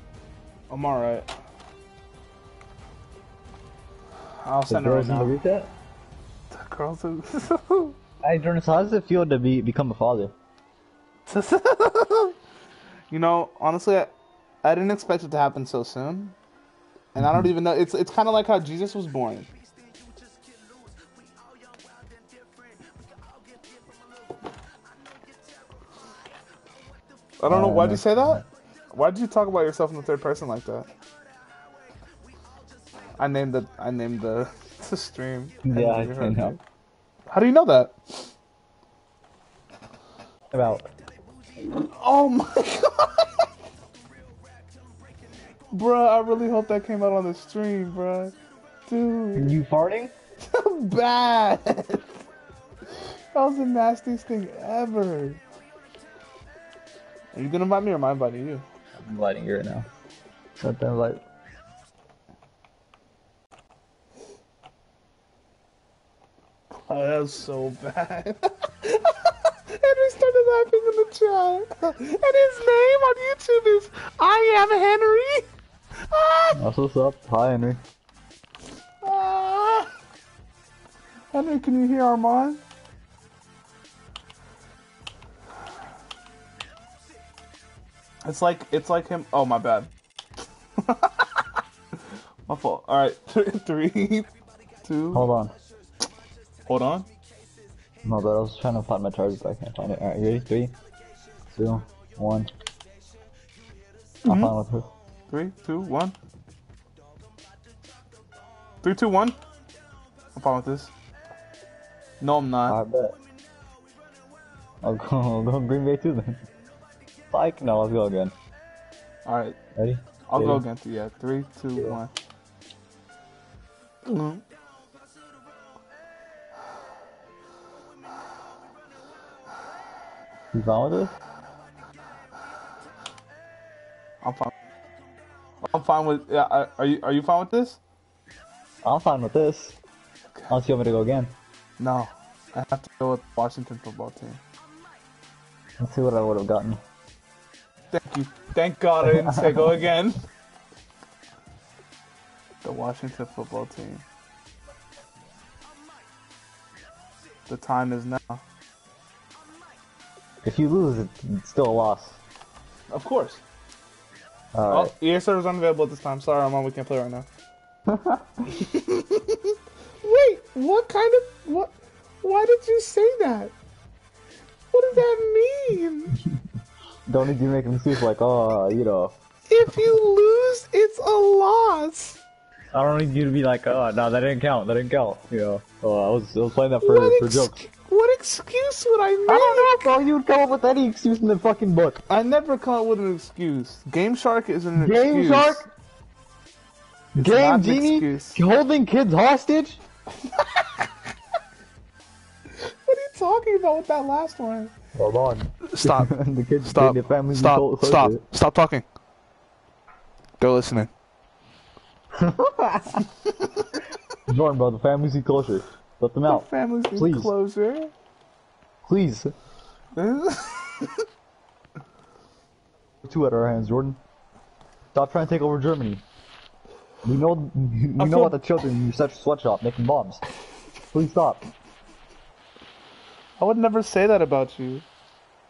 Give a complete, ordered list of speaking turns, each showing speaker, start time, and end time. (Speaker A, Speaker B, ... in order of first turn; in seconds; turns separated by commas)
Speaker A: 0.7-1.3, Speaker A: 4.4-5.3, Speaker B: 4.7-5.7, Speaker A: 6.5-8.0, Speaker B: 8.2-10.3, Speaker A: 11.3-12.4, Speaker A: 13.1-16.3, Speaker A: 17.1-19.5, Speaker A: 27.4-30.9, Speaker B: 27.5-28.4, Speaker A: 33.2-36.6, Speaker B: 35.6-36.6, Speaker A: 37.3-38.3, Speaker B: 40.5-40.9, Speaker A: 41.7-43.5, Speaker A: 45.7-48.3, Speaker A: 48.9-49.5, Speaker B: 49.4-50.1, Speaker A: 50.4-52.0, Speaker A: 53.3-55.4, Speaker A: 57.3-58.6, Speaker B: 59.0-59.9, Speaker B: 60.6-61.2, Speaker A: 66.9-75.5, Speaker A: 76.1-76.6, Speaker B: 76.5-77.8, Speaker A: 79.0-79.9, Speaker A: 81.3-82.6, Speaker A: 88.2-89.9, Speaker A: 90.8-91.5, Speaker A: 92.5-94.3, Speaker A: 94.8-95.3, Speaker B: 95.1-95.5, Speaker A: 96.7-97.1, Speaker B: 98.0-100.8, Speaker B: 101.5-102.5, Speaker A: 104.2-104.5, Speaker B: 104.2-104.9, Speaker A: 105.3-106.2, Speaker A: 108.8-109.4, Speaker A: 110.4-110.9, Speaker A: 112.2-112.8, Speaker B: 112.7-113.2, Speaker B: 114.8-116.4, Speaker B: 117.3-118.3, Speaker A: 119.2-119.6, Speaker B: 119.8-120.6, Speaker A: 120.3-122.1, Speaker A: 124.0-124.4, Speaker B: 130.5-131.1, Speaker A: 134.2-134.5, Speaker A: 135.6-137.8, Speaker B: 138.8-139.7, Speaker A: 140.3-140.6, Speaker B: 140.5-141.3, Speaker A: 141.8-144.4, Speaker B: 145.8-146.8, Speaker A: 147.9-150.2, Speaker B: 149.1-149.6, Speaker A: 152.6-154.0, Speaker A: 157.5-158.4, Speaker B: 160.4-162.2, Speaker A: 162.9-163.4, Speaker B: 164.5-164.9, Speaker A: 164.7-167.3, Speaker B: 167.9-168.6, Speaker A: 168.5-173.5, Speaker A: 174.7-176.1, Speaker B: 177.1-179.1, Speaker A: 179.5-182.2, Speaker B: 182.7-187.6, Speaker A: 186.8-189.9, Speaker B: 189.3-192.0, Speaker A: 192.1-195.7, Speaker B: 194.8-195.7, Speaker A: 197.1-198.4, Speaker B: 197.2-199.8, Speaker A: 202.5-204.7, Speaker B: 204.9-208.2, Speaker A: 205.6-208.8, Speaker A: 210.4-210.9, Speaker B: 212.2-213.0, Speaker B: 214.3-217.3, Speaker A: 216.2-217.9, Speaker B: 218.8-219.3, Speaker A: 219.9-220.9, Speaker B: 223.0-224.0, Speaker B: 224.9-226.0, Speaker B: 227.0-230.2, Speaker A: 228.0-228.4, Speaker B: 230.9-231.4, Speaker A: 233.4-234.8